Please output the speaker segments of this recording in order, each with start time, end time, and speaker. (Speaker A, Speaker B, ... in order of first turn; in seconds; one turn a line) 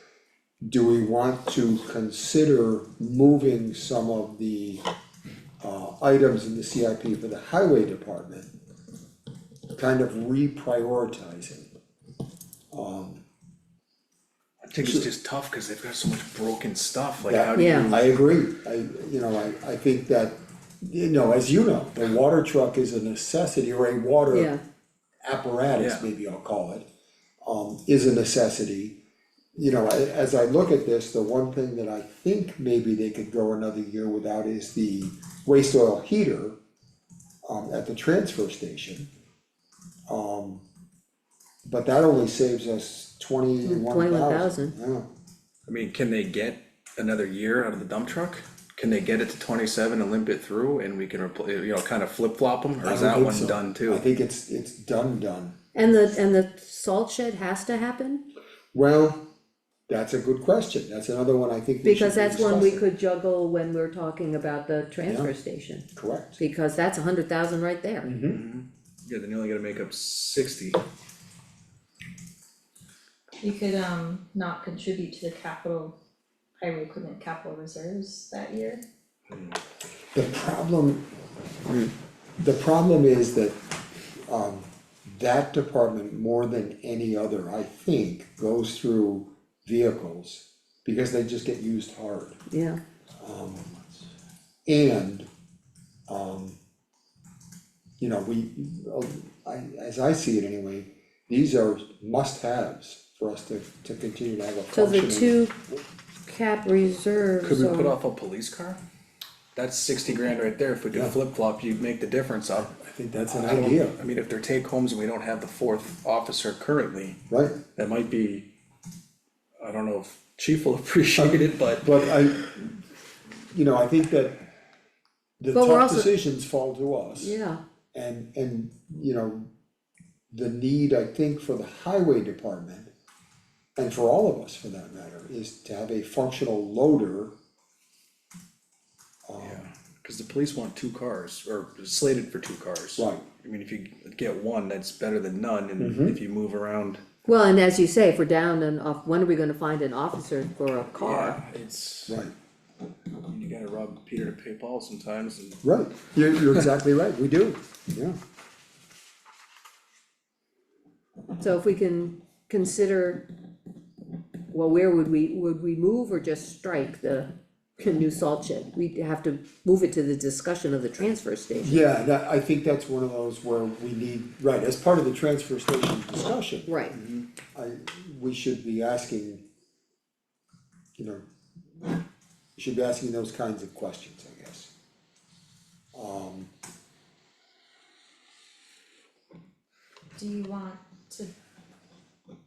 Speaker A: 0.6-4.8
Speaker A: 5.6-8.5
Speaker A: 9.7-11.7
Speaker A: 12.7-13.2
Speaker B: 14.6-18.1
Speaker A: 14.8-15.1
Speaker A: 17.3-24.5
Speaker C: 17.6-17.9
Speaker C: 24.3-24.6
Speaker A: 25.2-26.9
Speaker B: 25.8-26.1
Speaker A: 27.4-29.0
Speaker A: 29.6-36.5
Speaker A: 37.5-39.1
Speaker A: 40.1-40.6
Speaker A: 41.6-45.1
Speaker C: 43.6-44.8
Speaker B: 45.7-54.0
Speaker A: 52.8-55.6
Speaker C: 55.7-58.2
Speaker A: 58.7-59.2
Speaker A: 59.9-62.9
Speaker C: 61.8-68.1
Speaker A: 65.0-65.3
Speaker A: 65.9-66.4
Speaker A: 68.0-68.4
Speaker B: 68.3-70.8
Speaker D: 73.4-76.0
Speaker D: 76.6-78.8
Speaker B: 79.3-79.6
Speaker A: 80.1-81.1
Speaker A: 82.4-83.6
Speaker A: 84.3-92.4
Speaker C: 92.5-92.8
Speaker A: 93.2-93.7
Speaker A: 94.7-95.3
Speaker A: 96.1-96.6
Speaker A: 98.0-105.4
Speaker C: 104.7-105.5
Speaker C: 106.2-107.9
Speaker B: 107.4-108.8
Speaker B: 109.5-112.7
Speaker A: 110.9-111.2
Speaker A: 112.5-114.0
Speaker B: 113.3-117.2
Speaker A: 117.3-117.6
Speaker B: 117.7-118.5
Speaker B: 119.6-122.0
Speaker A: 121.2-122.8
Speaker A: 123.5-124.4
Speaker A: 125.4-127.4
Speaker C: 125.5-126.1
Speaker C: 127.2-127.6
Speaker A: 127.9-129.5
Speaker A: 130.3-132.9
Speaker A: 133.8-137.3
Speaker A: 139.2-139.6
Speaker B: 139.4-147.0
Speaker A: 143.0-143.2
Speaker A: 145.8-146.2
Speaker C: 147.2-151.4
Speaker B: 151.0-152.2
Speaker B: 153.1-155.6
Speaker A: 155.6-158.2
Speaker C: 161.4-163.2
Speaker C: 164.5-171.8
Speaker A: 171.5-179.4
Speaker C: 176.7-176.9
Speaker A: 181.0-181.2
Speaker A: 182.6-184.7
Speaker A: 185.9-186.5
Speaker D: 190.2-191.3